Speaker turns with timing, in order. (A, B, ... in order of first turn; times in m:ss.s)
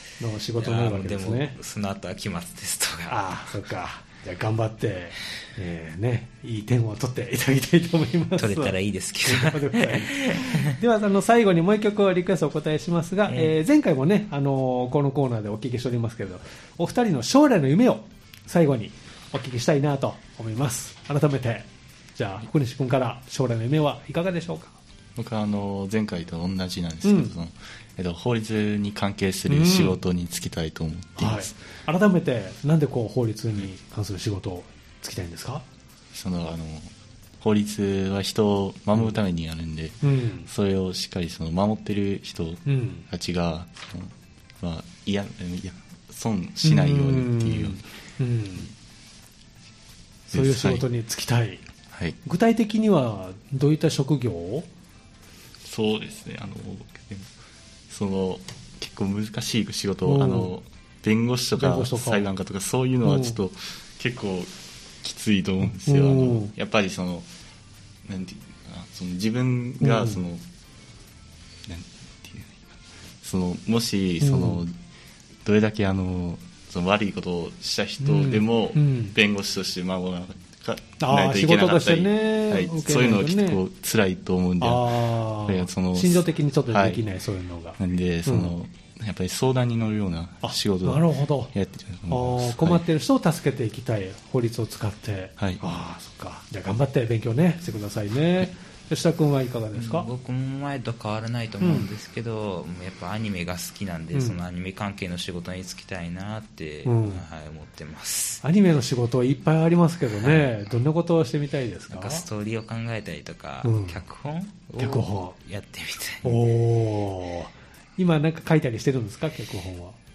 0:00.2-0:01.6 A
0:00.6-0:03.3 B
0:03.1-0:24.8 A
0:08.4-0:10.7 B
0:13.3-0:13.5 B
0:25.2-0:31.5 C
0:27.0-0:27.3 A
0:29.5-0:30.0 A
0:31.2-0:35.6 A
0:36.1-0:47.8 C
0:40.0-0:40.5 A
0:42.6-0:43.0 A
0:46.6-0:48.7 A
0:50.3-0:51.6 A
0:50.3-0:50.8 C
0:51.9-0:52.2 C
0:52.2-0:54.7 A
0:55.6-0:57.3 C
0:57.9-1:07.3 C
1:00.0-1:00.5 A
1:01.6-1:02.3 A
1:03.0-1:03.4 A
1:05.7-1:06.5 A
1:08.0-1:10.4 C
1:09.8-1:10.2 A
1:11.6-1:14.7 C
1:14.2-1:14.6 A
1:15.4-1:27.0 C
1:18.0-1:19.1 A
1:21.0-1:23.6 A
1:24.6-1:28.5 A
1:27.8-1:32.8 C
1:30.4-1:31.5 A
1:32.1-1:40.1 A
1:39.7-1:48.4 B
1:41.6-1:41.9 A
1:46.8-1:47.2 A
1:48.4-1:52.2 A
1:50.2-1:50.5 B
1:51.9-1:56.4 B
1:53.6-1:54.0 A
1:54.8-1:55.4 A
1:56.2-2:00.0 A